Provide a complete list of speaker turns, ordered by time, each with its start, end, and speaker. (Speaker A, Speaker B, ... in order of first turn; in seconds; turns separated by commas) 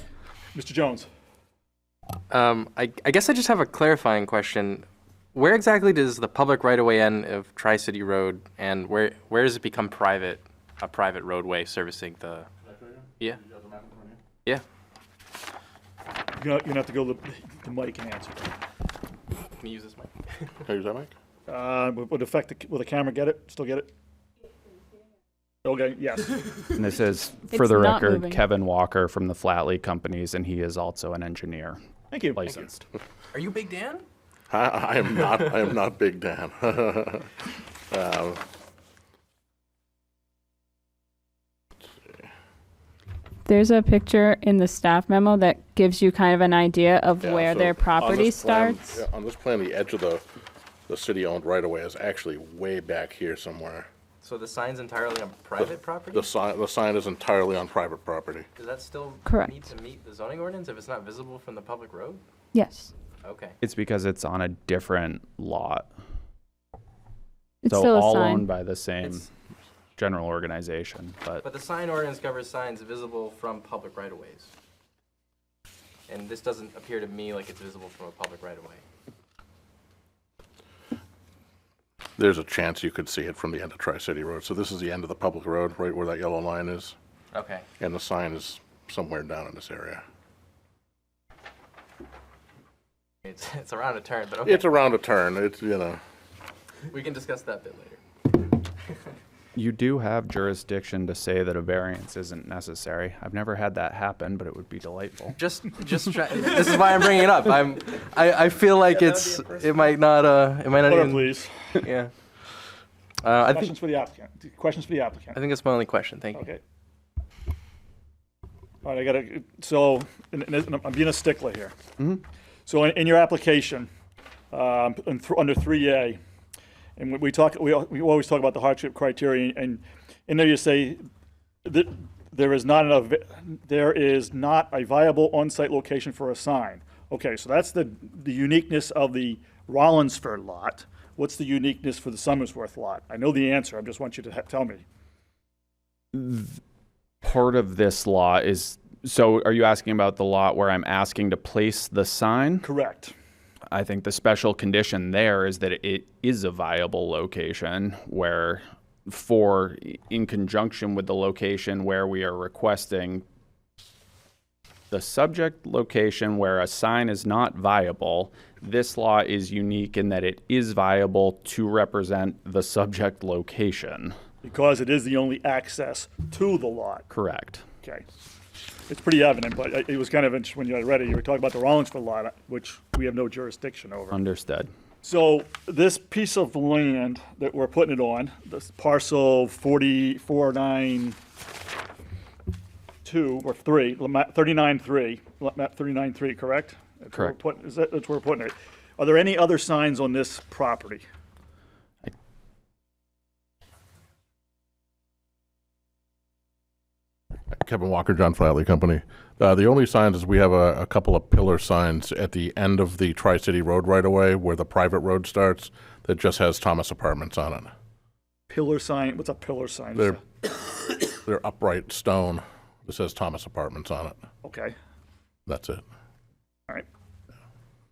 Speaker A: 0.5-1.1, Speaker B: 2.3-12.5, Speaker C: 12.8-14.2, Speaker A: 16.4-18.5, Speaker B: 19.6-20.5, Speaker C: 20.6-21.1, Speaker A: 21.5-23.9, Speaker A: 25.6-26.5, Speaker D: 26.7-31.8, Speaker E: 27.5-28.4, Speaker A: 32.1-32.7, Speaker D: 32.3-32.8, Speaker B: 33.3-34.0, Speaker C: 34.5-37.3, Speaker C: 37.9-38.4, Speaker E: 43.5-48.9, Speaker C: 47.2-50.2, Speaker C: 50.9-53.9, Speaker B: 54.2-56.3, Speaker C: 56.1-58.5, Speaker B: 58.5-62.2, Speaker E: 59.2-59.6, Speaker E: 62.5-62.9, Speaker B: 63.2-63.5, Speaker D: 63.6-65.9, Speaker E: 67.6-68.5, Speaker D: 67.7-69.3, Speaker D: 70.0-71.4, Speaker B: 71.4-74.5, Speaker B: 76.1-78.8, Speaker C: 82.2-86.9, Speaker B: 87.3-87.7, Speaker C: 87.8-90.0, Speaker B: 93.2-94.7, Speaker C: 94.4-96.0, Speaker B: 96.9-98.0, Speaker D: 99.5-105.4, Speaker B: 105.3-111.3, Speaker A: 110.8-111.8, Speaker B: 111.8-112.1, Speaker B: 113.2-113.7, Speaker A: 113.4-115.4, Speaker B: 115.3-116.5, Speaker A: 116.3-116.6, Speaker A: 118.8-121.7, Speaker A: 122.7-123.9, Speaker A: 124.5-126.2, Speaker A: 127.0-131.0, Speaker A: 131.6-144.8, Speaker D: 146.1-146.6, Speaker D: 147.2-152.7, Speaker A: 152.6-153.1, Speaker D: 153.7-163.2, Speaker D: 164.9-174.1, Speaker A: 174.4-177.1, Speaker D: 177.1-177.6, Speaker A: 178.9-184.2, Speaker D: 184.1-184.7, Speaker A: 185.0-191.2, Speaker A: 193.0-201.0, Speaker C: 207.5-217.7, Speaker A: 218.5-220.2, Speaker C: 221.1-224.2, Speaker A: 224.4-224.8, Speaker C: 225.5-225.8